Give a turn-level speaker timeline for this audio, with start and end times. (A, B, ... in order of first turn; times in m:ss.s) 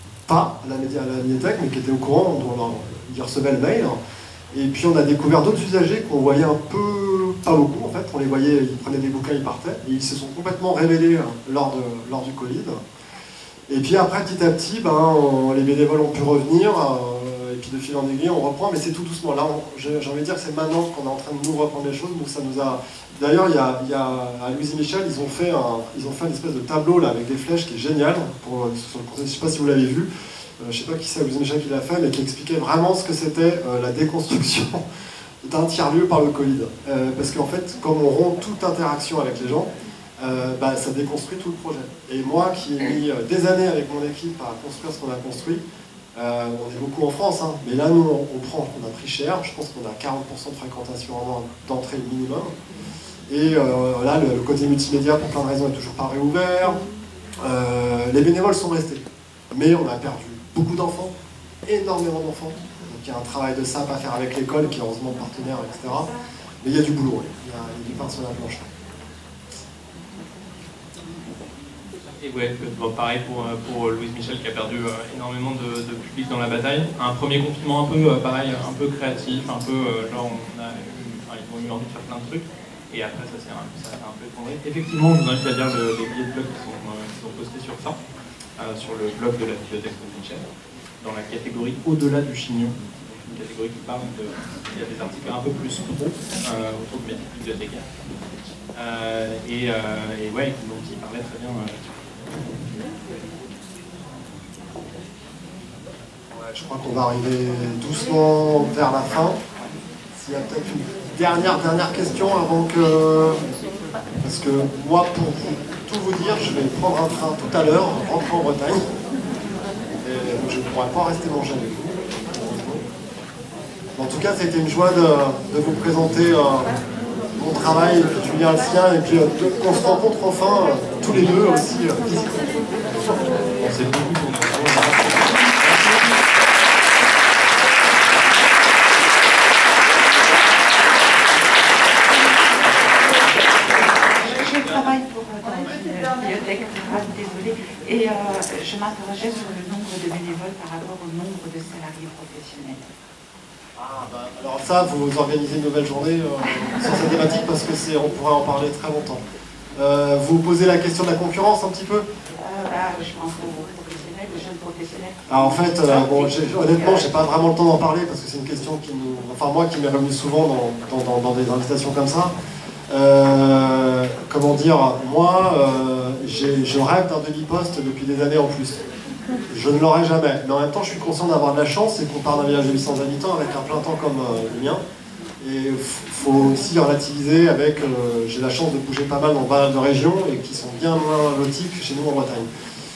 0:00.3-0:04.0 A
0:04.5-0:12.8 A
0:13.7-0:30.1 A
0:30.6-0:34.8 A
0:35.4-0:45.6 A
0:46.1-0:52.5 A
0:53.3-0:56.8 A
0:57.4-1:01.1 A
1:01.6-1:06.1 A
1:06.6-1:08.6 A
1:12.2-1:28.0 B
1:28.6-1:30.4 B
1:31.0-1:37.8 B
1:38.7-1:41.9 B
1:46.3-1:49.4 A
1:50.1-1:53.4 A
1:54.2-1:58.8 A
2:00.0-2:02.8 A
2:04.0-2:06.7 A
2:07.4-2:12.5 A
2:13.6-2:16.0 B
2:24.2-2:32.8 C
2:33.8-2:39.2 A
2:39.8-2:42.0 A
2:42.4-2:46.2 C
2:45.3-2:52.3 A
2:52.9-2:58.8 A
2:59.5-3:04.8 A
3:05.4-3:12.5 A